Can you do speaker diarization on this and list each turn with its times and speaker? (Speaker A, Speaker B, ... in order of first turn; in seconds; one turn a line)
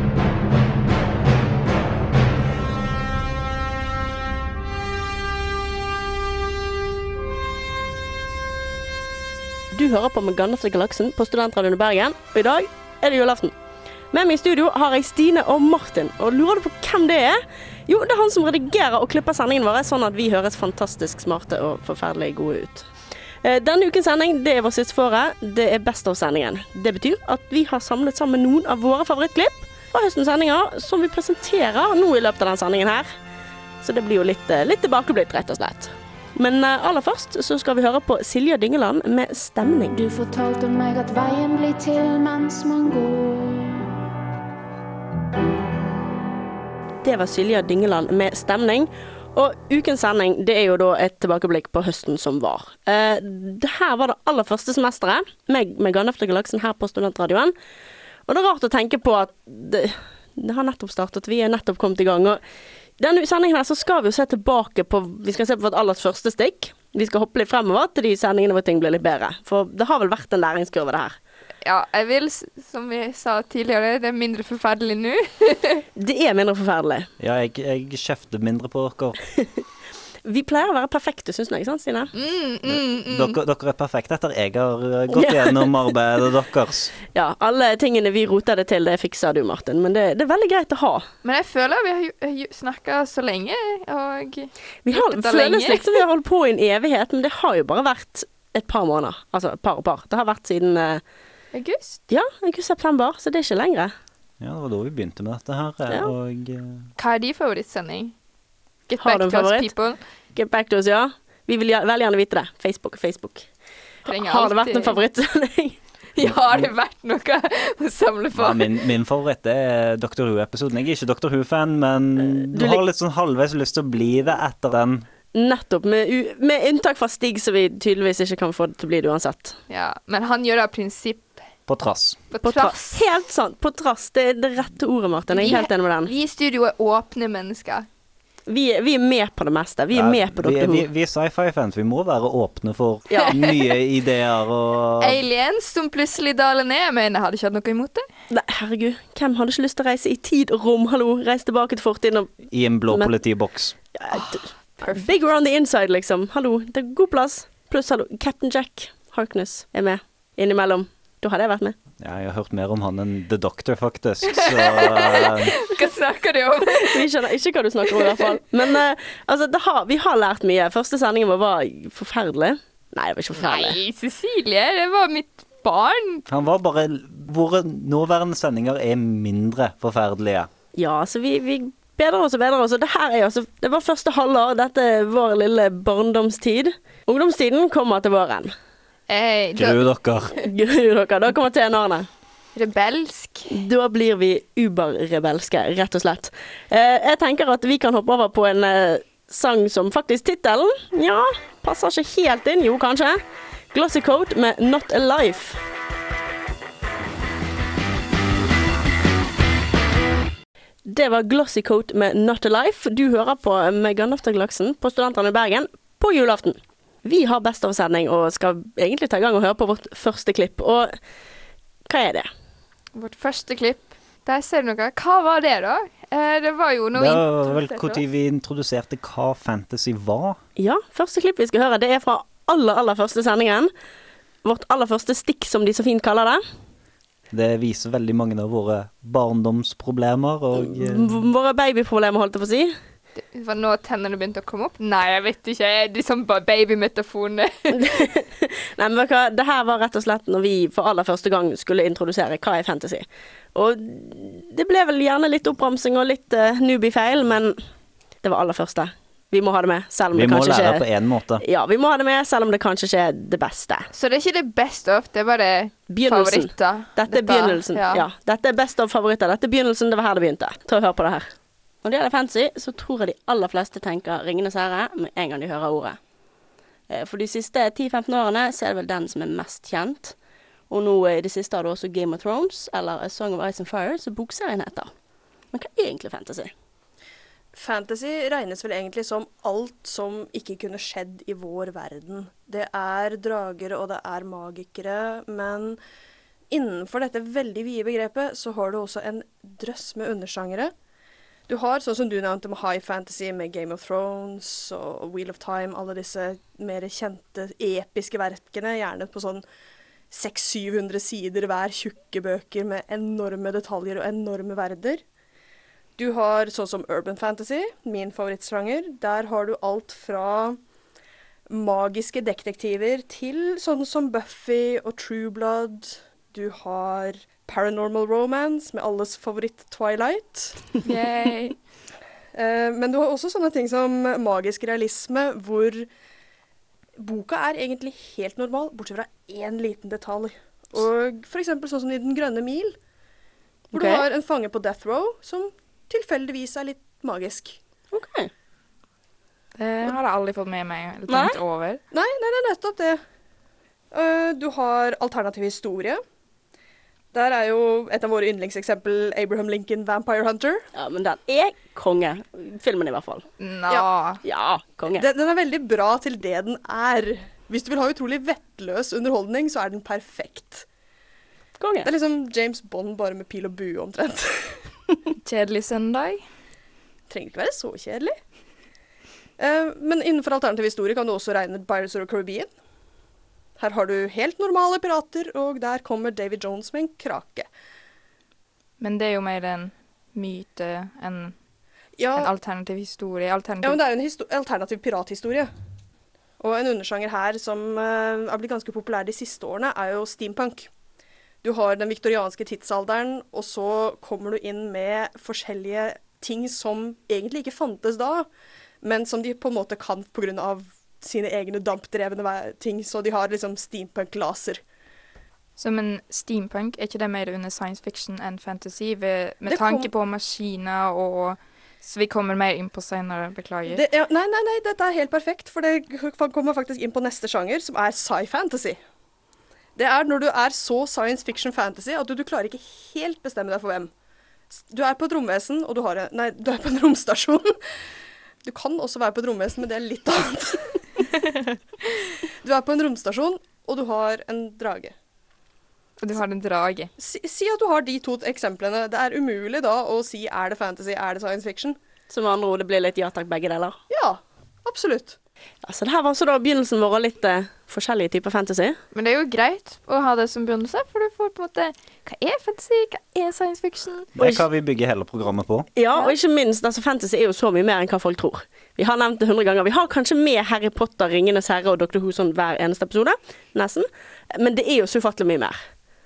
Speaker A: 9.7-13.5
Speaker A: 14.1-22.9
Speaker A: 23.4-33.1
Speaker A: 33.8-40.0
Speaker B: 39.9-43.9
Speaker A: 47.0-57.5
Speaker A: 58.3-62.4
Speaker A: 63.0-71.2
Speaker C: 71.6-75.8
Speaker A: 76.0-77.1
Speaker D: 77.2-79.2
Speaker A: 80.2-82.1
Speaker C: 82.2-83.4
Speaker D: 82.7-86.9
Speaker A: 85.1-85.7
Speaker A: 87.2-91.1
Speaker C: 91.2-96.0
Speaker A: 94.8-101.0
Speaker C: 101.5-102.0
Speaker A: 102.1-103.9
Speaker D: 104.4-106.9
Speaker C: 107.0-108.2
Speaker C: 108.9-110.0
Speaker A: 109.0-109.7
Speaker A: 110.3-113.5
Speaker C: 114.1-115.0
Speaker A: 114.1-115.8
Speaker C: 116.2-118.8
Speaker D: 118.3-125.1
Speaker A: 122.5-122.8
Speaker A: 125.3-129.6
Speaker C: 129.7-131.4
Speaker D: 131.7-132.2
Speaker C: 132.3-133.0
Speaker A: 132.4-136.1
Speaker C: 135.3-137.9
Speaker A: 138.5-140.9
Speaker D: 139.9-145.2
Speaker A: 143.1-143.7
Speaker C: 145.0-148.1
Speaker A: 148.3-152.3
Speaker D: 152.5-153.8
Speaker A: 154.0-161.8
Speaker C: 154.1-155.1
Speaker D: 162.0-165.6
Speaker C: 164.3-167.0
Speaker A: 166.8-173.8
Speaker C: 168.0-168.4
Speaker C: 173.4-176.2
Speaker D: 176.3-180.5
Speaker A: 180.8-188.5
Speaker C: 189.1-189.8
Speaker D: 189.6-190.4
Speaker A: 190.4-192.1
Speaker C: 192.6-193.6
Speaker A: 193.5-203.2
Speaker A: 203.7-205.6
Speaker A: 210.9-220.9
Speaker A: 221.9-222.3
Speaker C: 222.9-228.0
Speaker D: 226.9-230.4
Speaker A: 230.6-233.7
Speaker A: 234.4-236.4
Speaker D: 237.3-241.2
Speaker A: 240.6-242.7
Speaker C: 243.2-247.8
Speaker A: 247.7-257.6
Speaker A: 258.2-260.9
Speaker D: 260.1-261.4
Speaker A: 261.4-263.9
Speaker C: 263.9-268.1
Speaker A: 265.9-271.3
Speaker A: 271.8-276.0
Speaker A: 276.9-280.1
Speaker A: 280.7-284.9
Speaker A: 285.5-286.5
Speaker E: 287.5-295.8
Speaker E: 296.5-300.7
Speaker E: 301.5-309.4
Speaker E: 310.1-315.0
Speaker E: 316.0-320.6
Speaker E: 321.5-330.8
Speaker C: 330.8-331.6
Speaker E: 332.4-335.9
Speaker E: 337.0-342.8
Speaker A: 343.7-344.1
Speaker E: 343.7-347.6
Speaker A: 347.9-348.3
Speaker C: 349.6-351.8
Speaker A: 351.1-351.4
Speaker E: 351.9-353.0
Speaker E: 353.9-356.0
Speaker E: 357.1-360.6
Speaker A: 360.8-363.3
Speaker C: 363.4-364.2
Speaker A: 364.2-365.1
Speaker E: 365.0-370.7
Speaker A: 371.6-371.9
Speaker E: 371.8-374.7
Speaker C: 375.2-376.2
Speaker E: 377.1-378.2
Speaker E: 379.4-382.5
Speaker E: 383.6-387.5
Speaker C: 388.8-391.4
Speaker E: 392.0-392.3
Speaker C: 392.1-393.8
Speaker E: 393.6-395.5
Speaker E: 396.4-400.7
Speaker E: 401.4-408.3
Speaker E: 408.8-414.6
Speaker C: 415.6-423.8
Speaker E: 419.5-419.9
Speaker E: 423.7-428.8
Speaker E: 429.8-433.9
Speaker E: 434.5-437.5
Speaker E: 438.4-441.1
Speaker E: 442.4-444.9
Speaker C: 446.0-446.9
Speaker E: 447.0-451.8
Speaker A: 452.1-453.8
Speaker E: 453.9-455.2
Speaker A: 455.6-458.8
Speaker C: 458.9-464.1
Speaker D: 464.2-465.7
Speaker A: 464.2-464.4
Speaker A: 465.8-475.6